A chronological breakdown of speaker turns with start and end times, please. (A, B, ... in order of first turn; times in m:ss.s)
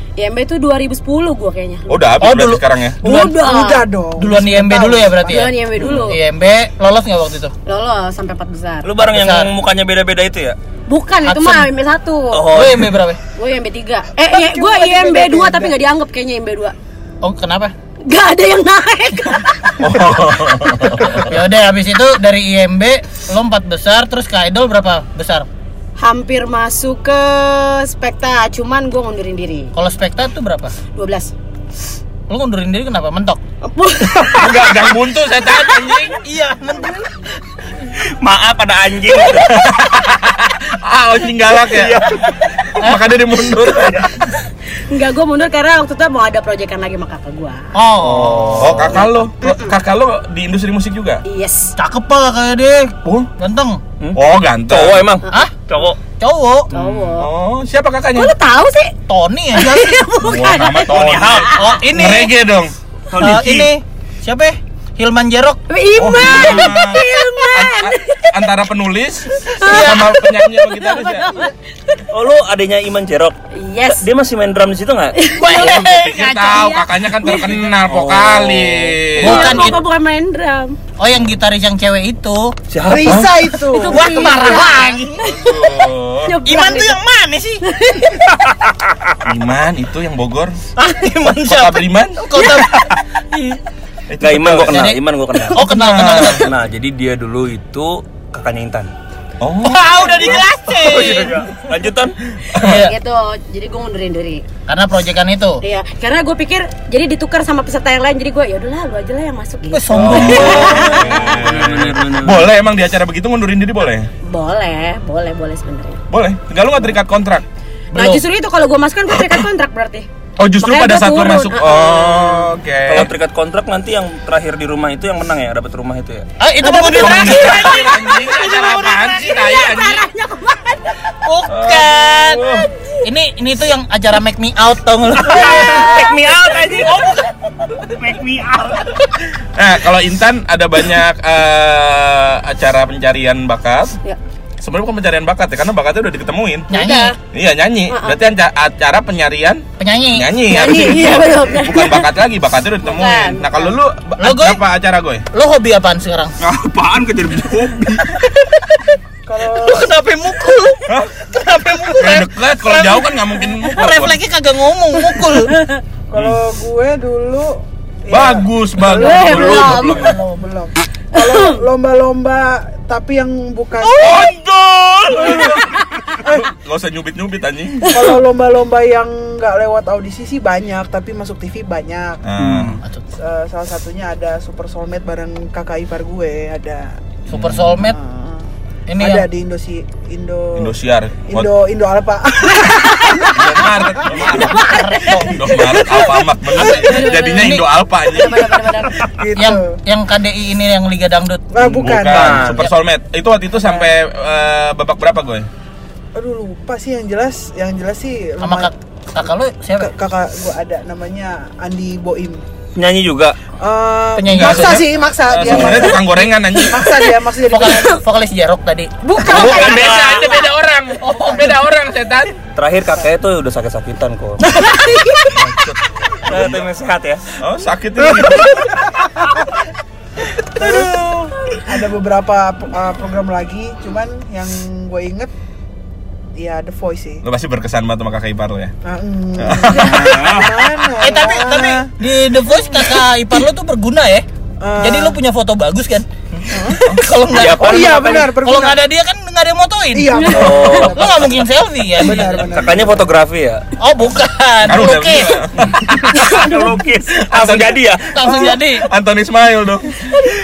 0:00.2-0:02.0 A
0:01.9-0:03.0 B
0:02.2-0:03.4 C
0:03.0-0:03.8 A
0:03.0-0:05.4 D
0:04.2-0:07.5 C
0:05.2-0:06.2 A
0:05.8-0:06.1 E
0:07.7-0:08.9 A
0:08.8-0:10.6 E
0:09.0-0:09.5 C
0:10.9-0:12.7 A
0:11.2-0:11.7 C
0:12.3-0:13.0 E
0:12.5-0:13.2 C
0:13.4-0:16.8 A
0:14.2-0:15.8 D
0:17.2-0:17.7 C
0:18.1-0:19.9 A
0:19.8-0:21.2 B
0:21.1-0:25.5 C
0:26.0-0:29.7 A
0:29.8-0:30.8 C
0:31.0-0:31.3 A
0:32.3-0:33.4 C
0:33.6-0:34.8 A
0:34.2-0:36.2 B
0:36.2-0:37.1 C
0:38.2-0:39.6 E
0:39.2-0:42.2 B
0:41.7-0:42.3 E
0:42.8-0:44.1 B
0:44.9-0:47.7 A
0:47.8-0:49.0 C
0:48.0-0:49.1 E
0:48.6-0:51.2 B
0:49.4-0:49.8 A
0:51.2-0:51.7 A
0:51.8-0:53.8 C
0:53.0-0:53.3 B
0:54.0-0:56.0 E
0:54.2-0:55.1 B
0:56.2-0:56.7 C
0:56.7-0:57.1 E
0:56.7-0:57.3 A
0:57.2-0:58.3 B
0:58.2-0:58.9 A
0:59.1-1:00.5 C
0:59.5-1:01.5 A
1:00.2-1:02.7 B
1:00.8-1:01.7 E
1:01.5-1:02.3 C
1:03.1-1:03.7 E
1:03.2-1:05.6 C
1:05.7-1:08.3 A
1:06.0-1:11.4 B
1:09.4-1:12.0 A
1:09.6-1:10.1 C
1:12.1-1:13.4 E
1:13.5-1:14.0 A
1:13.9-1:15.2 E
1:15.1-1:15.9 A
1:15.3-1:16.9 C
1:15.5-1:19.6 B
1:16.5-1:17.6 A
1:17.8-1:19.1 E
1:19.2-1:19.8 C
1:19.2-1:20.8 A
1:21.0-1:22.6 C
1:22.7-1:23.3 E
1:22.8-1:24.4 D
1:23.7-1:27.0 A
1:23.8-1:25.2 C
1:25.2-1:26.4 B
1:26.4-1:27.6 C
1:27.7-1:28.2 A
1:28.4-1:29.1 E
1:29.2-1:30.6 B
1:30.8-1:33.6 C
1:31.2-1:32.2 B
1:34.1-1:34.9 B
1:34.2-1:38.9 E
1:34.7-1:35.0 C
1:35.5-1:36.5 C
1:35.6-1:36.4 B
1:39.4-1:40.4 B
1:39.6-1:41.4 C
1:40.7-1:42.2 E
1:42.6-1:43.0 C
1:42.6-1:44.4 A
1:44.7-1:45.6 C
1:45.6-1:51.4 A
1:49.7-1:51.0 C
1:49.9-1:54.1 B
1:50.8-1:52.5 E
1:54.3-1:56.0 A
1:56.1-1:57.4 B
1:57.9-1:58.2 C
1:57.9-2:00.1 A
2:00.4-2:03.1 B
2:00.6-2:02.5 A
2:02.9-2:06.3 E
2:06.4-2:09.4 C
2:06.6-2:08.0 A
2:06.9-2:10.1 B
2:09.1-2:11.1 A
2:11.2-2:12.5 C
2:11.5-2:12.7 B
2:13.0-2:16.1 C
2:15.2-2:17.2 E
2:16.7-2:17.2 C
2:17.8-2:19.0 E
2:19.5-2:24.0 B
2:24.6-2:26.7 B
2:26.7-2:27.1 C
2:26.7-2:27.2 A
2:27.3-2:35.2 B
2:27.9-2:28.2 A
2:29.8-2:30.8 C
2:30.5-2:32.1 A
2:32.8-2:33.8 A
2:34.2-2:34.6 C
2:35.3-2:36.4 C
2:36.4-2:38.2 E
2:38.2-2:38.9 C
2:39.2-2:39.9 D
2:39.5-2:45.6 C
2:40.9-2:41.1 B
2:42.0-2:44.2 B
2:45.5-2:45.8 A
2:46.1-2:54.3 D
2:46.1-2:46.4 B
2:48.1-2:50.2 B
2:48.9-2:50.2 A
2:49.6-2:50.1 E
2:49.9-2:50.2 C
2:51.2-2:51.6 A
2:54.0-2:58.0 B
2:55.1-2:55.6 D
2:56.2-2:56.5 D
2:57.9-3:02.2 D
3:02.2-3:02.8 B
3:02.4-3:02.8 E
3:03.2-3:07.0 D
3:07.3-3:08.0 C
3:07.3-3:07.8 B
3:07.7-3:10.7 D
3:08.9-3:09.2 C
3:10.5-3:11.5 B
3:11.3-3:13.7 D
3:13.3-3:18.8 B
3:14.2-3:15.4 C
3:16.6-3:19.1 A
3:17.4-3:17.7 C
3:19.1-3:19.8 D
3:19.4-3:21.4 C
3:21.5-3:22.4 D
3:21.6-3:22.7 E
3:21.6-3:25.5 B
3:23.6-3:23.9 D
3:26.2-3:28.7 D
3:28.4-3:29.9 C
3:29.8-3:32.4 D
3:32.8-3:33.4 E
3:33.6-3:38.0 D
3:34.2-3:34.9 C
3:34.3-3:37.0 B
3:35.4-3:35.8 E
3:37.5-3:38.9 C
3:39.0-3:40.0 D
3:39.2-3:42.4 B
3:39.3-3:40.3 E
3:41.0-3:41.6 C
3:42.5-3:44.4 E
3:44.7-3:45.2 A
3:45.3-3:46.7 B
3:46.2-3:47.2 E
3:47.4-3:48.9 B
3:50.5-3:55.3 D
3:56.4-3:57.2 D
3:57.2-3:58.8 B
3:58.8-4:01.9 D
3:59.4-4:00.4 B
3:59.8-4:00.6 E
4:01.0-4:04.2 C
4:04.6-4:05.2 D
4:04.8-4:12.5 C
4:06.5-4:06.8 D
4:07.3-4:08.3 E
4:07.4-4:08.8 D
4:09.9-4:13.1 D
4:10.1-4:10.8 A
4:10.3-4:11.0 E
4:12.4-4:13.6 E
4:13.8-4:15.5 C
4:14.6-4:16.5 B
4:16.2-4:18.1 E
4:16.2-4:16.7 A
4:17.2-4:20.3 B
4:18.1-4:18.9 C